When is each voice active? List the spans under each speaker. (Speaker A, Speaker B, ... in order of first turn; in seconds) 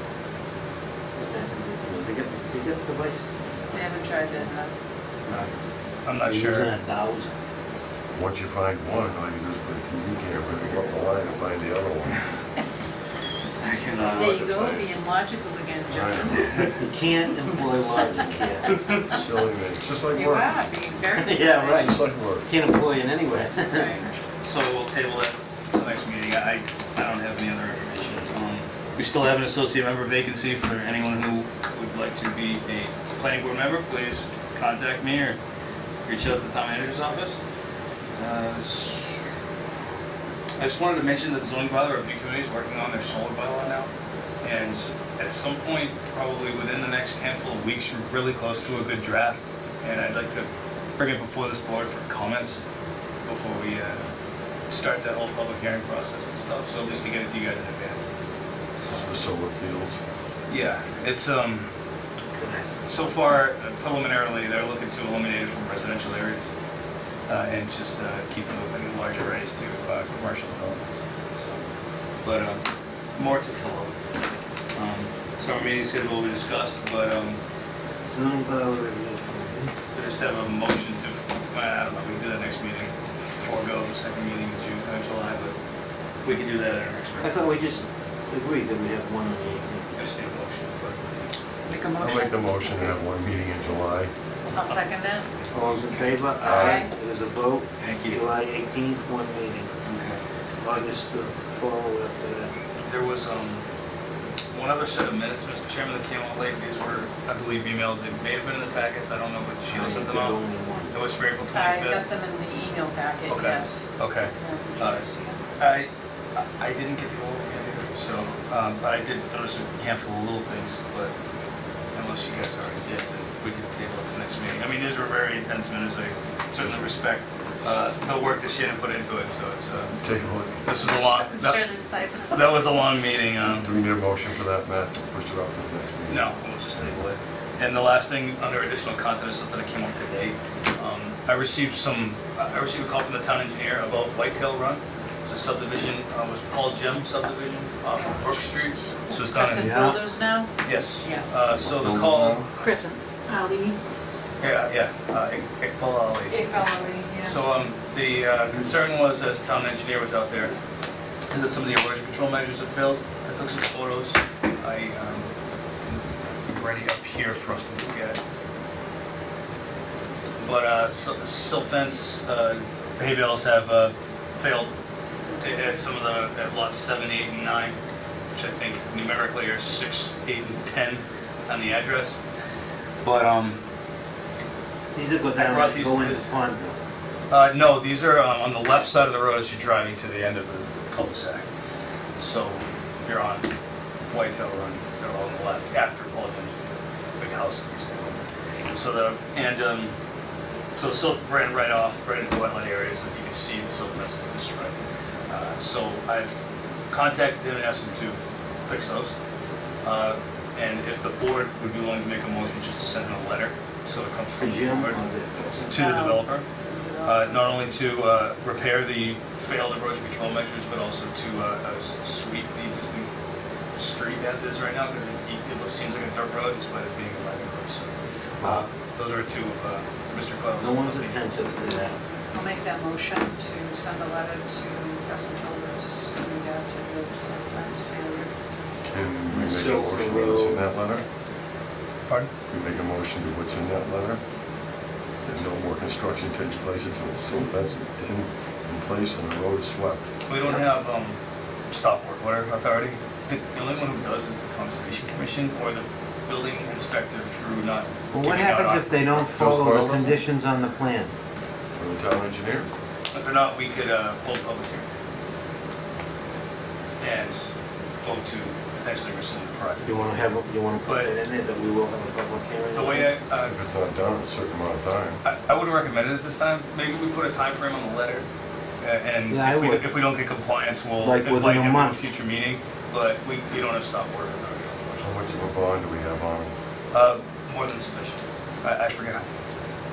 Speaker A: 1.1-4.5, 5.2-5.5, 6.2-7.4, 16.8-18.7, 21.1-23.9, 62.3-62.7, 78.1-79.7, 87.2-89.9, 95.5-99.7, 100.6-102.5, 109.7-110.9, 149.5-150.0, 184.9-186.8, 214.4-215.7, 230.6-231.9, 239.3-240.7, 258.1-261.1, 269.8-273.1, 279.3-279.9, 281.0-282.1
Speaker B: 3.7-4.7, 14.2-16.6, 20.1-21.9, 23.7-24.0, 91.7-92.9, 94.5-95.2, 96.4-96.9, 111.5-113.8, 114.4-115.4, 130.9-132.7, 149.1-150.5, 151.0-151.4, 152.6-153.8, 156.3-157.4, 175.1-175.7, 215.7-217.6, 232.3-238.3
Speaker C: 6.0-6.8, 13.6-14.3, 16.4-16.8, 24.4-35.4, 36.0-37.4, 38.2-39.2, 40.6-43.9, 44.4-52.6, 53.2-54.1, 54.7-58.1, 58.8-59.2, 60.5-61.7, 62.9-66.5, 67.3-71.6, 72.2-72.6, 73.2-73.9, 74.7-77.4, 79.9-85.5, 86.2-87.5, 90.0-91.3, 94.4-95.8, 97.8-98.2, 99.8-100.2, 102.8-103.7, 104.5-112.0, 113.3-115.0, 115.6-121.1, 121.9-130.0, 130.6-131.6, 132.3-133.7, 136.1-149.9, 150.6-152.4, 154.4-156.6, 157.2-160.6, 161.3-165.3, 165.9-168.2, 170.4-174.7, 175.4-177.8, 178.3-182.2, 183.0-183.6, 185.4-186.3, 187.3-191.5, 192.2-193.5, 194.1-196.7, 197.2-199.9, 200.8-204.8, 205.3-206.4, 206.9-209.1, 209.8-215.0, 215.7-216.4, 217.0-223.1, 223.8-227.9, 228.4-231.5, 250.2-251.2, 251.7-259.3, 263.1-264.9, 267.0-267.5, 268.0-270.2, 270.8-271.1, 272.7-273.6, 275.2-278.2, 278.8-285.3, 286.9-289.3
Speaker D: 8.1-12.2, 13.9-15.0, 15.9-16.5, 17.9-20.6, 21.7-22.5, 58.9-60.0, 92.0-94.1, 96.4-96.8, 126.6-126.9, 130.0-130.6, 133.5-136.9, 151.6-152.5, 238.8-241.0, 242.5-244.2, 245.3-250.1, 259.3-260.2, 261.8-262.7, 273.4-275.2, 285.0-286.5